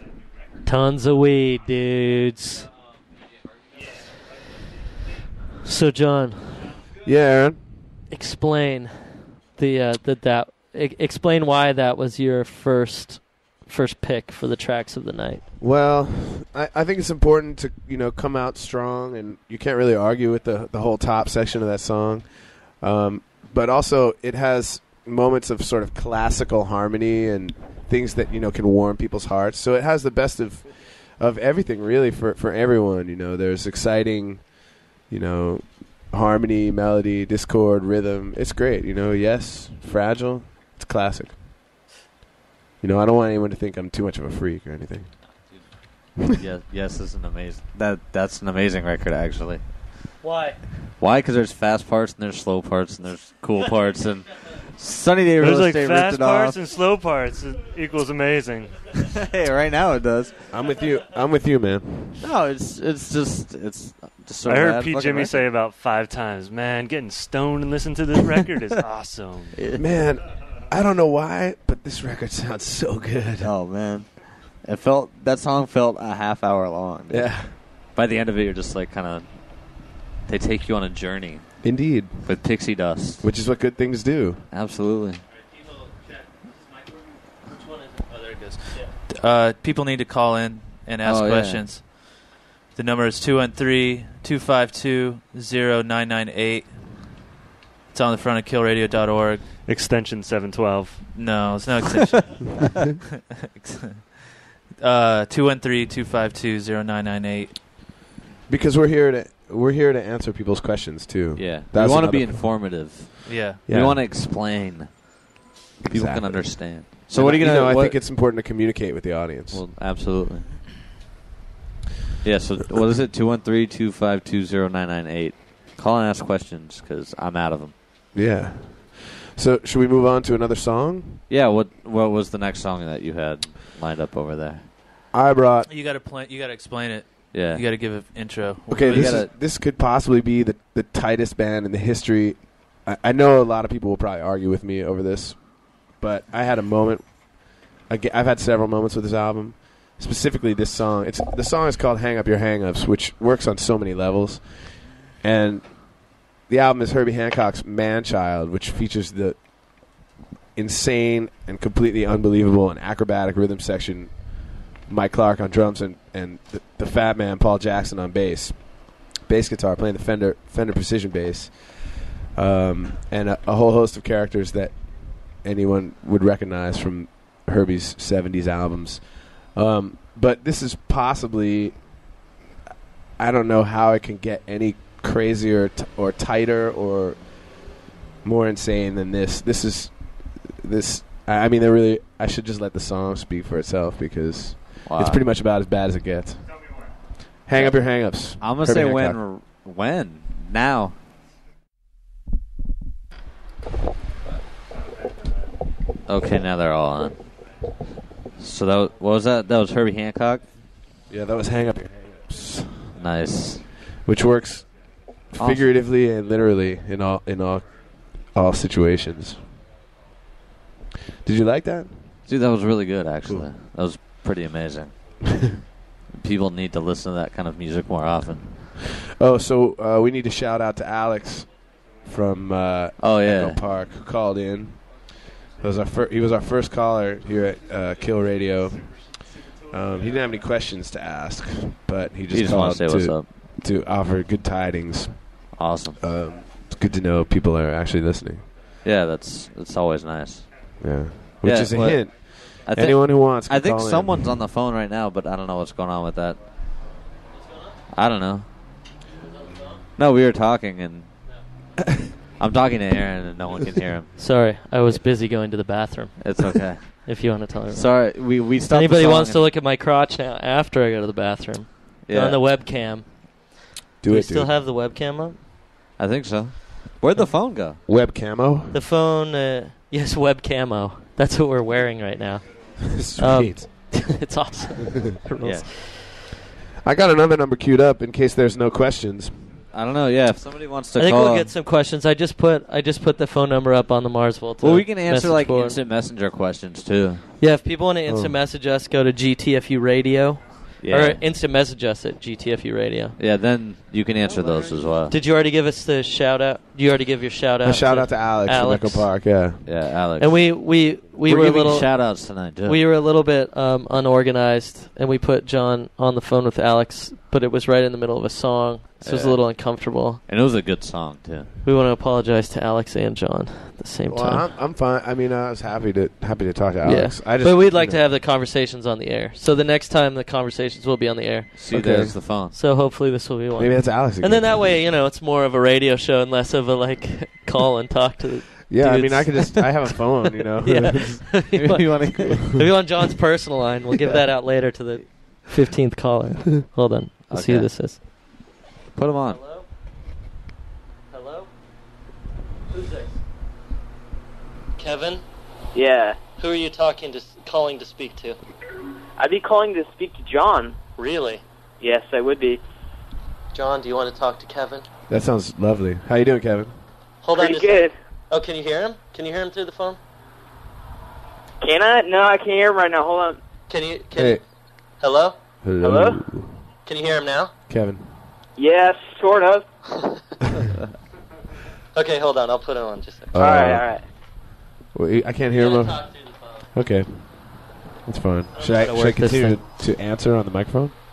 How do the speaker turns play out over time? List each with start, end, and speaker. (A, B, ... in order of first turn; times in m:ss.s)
0:00.6-0:02.6 A
0:05.6-0:06.7 A
0:07.0-0:07.9 B
0:08.1-0:15.4 A
0:15.6-0:41.4 B
0:42.8-0:45.1 B
0:46.3-0:49.7 C
0:50.2-0:50.6 A
0:51.0-0:56.6 C
0:55.4-0:58.8 D
0:59.0-1:00.4 C
1:00.5-1:02.2 B
1:02.2-1:05.4 C
1:04.4-1:09.6 D
1:09.5-1:09.8 C
1:09.8-1:13.5 B
1:13.4-1:19.7 C
1:17.1-1:17.6 B
1:20.2-1:23.2 C
1:21.6-1:22.4 B
1:23.2-1:24.4 B
1:24.5-1:25.2 C
1:28.2-1:37.0 E
1:31.0-1:31.7 C
1:37.9-1:39.6 E
1:39.6-1:41.3 D
1:41.1-1:42.8 E
1:43.5-1:47.6 E
1:48.5-1:52.9 B
1:51.4-1:55.1 C
1:53.2-1:53.6 E
1:53.7-1:54.0 B
1:55.8-1:59.6 B
1:55.8-1:58.0 C
1:59.5-2:00.5 C
2:02.2-2:07.7 C
2:08.1-2:11.2 B
2:11.3-2:14.7 C
2:15.1-2:15.7 B
2:15.6-2:19.2 E
2:17.3-2:17.6 C
2:18.7-3:02.1 B
2:18.8-2:19.3 C
3:03.2-3:07.7 B
3:08.2-3:16.5 B
3:14.8-3:15.2 C
3:17.4-3:19.2 B
3:17.5-3:21.0 C
3:26.1-3:27.2 C
3:28.4-3:30.4 C
3:31.1-3:33.0 B
3:32.9-3:33.6 C
3:34.0-3:34.6 B
3:35.3-3:37.6 B
3:35.4-3:35.6 C
3:38.2-3:39.4 B
3:41.2-3:42.1 B
3:42.2-3:44.9 C
3:46.1-3:48.7 C
3:49.2-3:51.5 B
3:52.0-3:55.0 B
3:53.0-3:53.6 C
3:55.6-3:58.9 B
3:59.7-4:05.3 B
4:02.3-4:03.3 C
4:05.5-4:06.0 C
4:06.0-4:08.4 B
4:08.8-4:10.4 C
4:10.8-4:14.3 B
4:11.4-4:12.1 C
4:12.6-4:16.4 C
4:17.9-4:18.5 C
4:19.3-4:19.7 A
4:20.0-4:21.1 C
4:22.4-4:24.2 C
4:24.2-4:35.4 A
4:26.2-4:29.4 C
4:32.0-4:32.6 C
4:34.0-4:34.5 B
4:36.0-4:37.8 C
4:37.8-4:38.8 B
4:38.7-4:46.2 A
4:42.8-4:43.7 B
4:45.4-4:45.7 C
4:46.8-4:49.6 B
4:49.7-4:51.5 C
4:51.0-4:55.8 A
4:54.6-4:57.2 C
4:57.4-5:03.2 A
4:58.0-4:58.4 B
5:00.8-5:01.2 C
5:03.2-5:05.2 C
5:05.1-5:09.1 A
5:07.6-5:09.6 B
5:09.6-5:10.4 C
5:10.2-5:20.2 A
5:11.3-5:12.8 C
5:19.0-5:21.5 C
5:21.6-5:24.5 A
5:24.1-5:28.0 B
5:26.8-5:31.6 A
5:31.6-5:32.6 C
5:31.7-5:32.2 B
5:32.5-5:39.8 A
5:33.6-5:34.7 B
5:38.7-5:41.3 B
5:40.6-5:48.0 A
5:41.5-5:42.6 C
5:47.3-5:48.0 C
5:48.9-5:49.4 C
5:49.3-5:49.6 A
5:51.1-5:51.5 A
5:52.7-5:53.1 A
5:54.8-5:55.2 A
5:55.7-5:56.2 F
5:56.4-5:58.4 A
5:59.2-6:00.8 F
6:01.0-6:01.4 A
6:01.8-6:02.6 F
6:03.5-6:04.8 A
6:05.1-6:06.8 B
6:07.2-6:10.0 A
6:07.3-6:07.9 F
6:11.6-6:13.4 F
6:13.7-6:14.4 A
6:14.1-6:14.4 B
6:15.0-6:15.4 A
6:15.6-6:16.6 B
6:15.8-6:16.2 F
6:16.8-6:17.5 A
6:17.7-6:18.1 B
6:18.6-6:19.6 F
6:21.9-6:23.3 A
6:23.3-6:24.0 B
6:23.4-6:24.0 F
6:24.9-6:26.2 B
6:25.5-6:26.6 A
6:26.7-6:30.9 B
6:28.6-6:29.6 A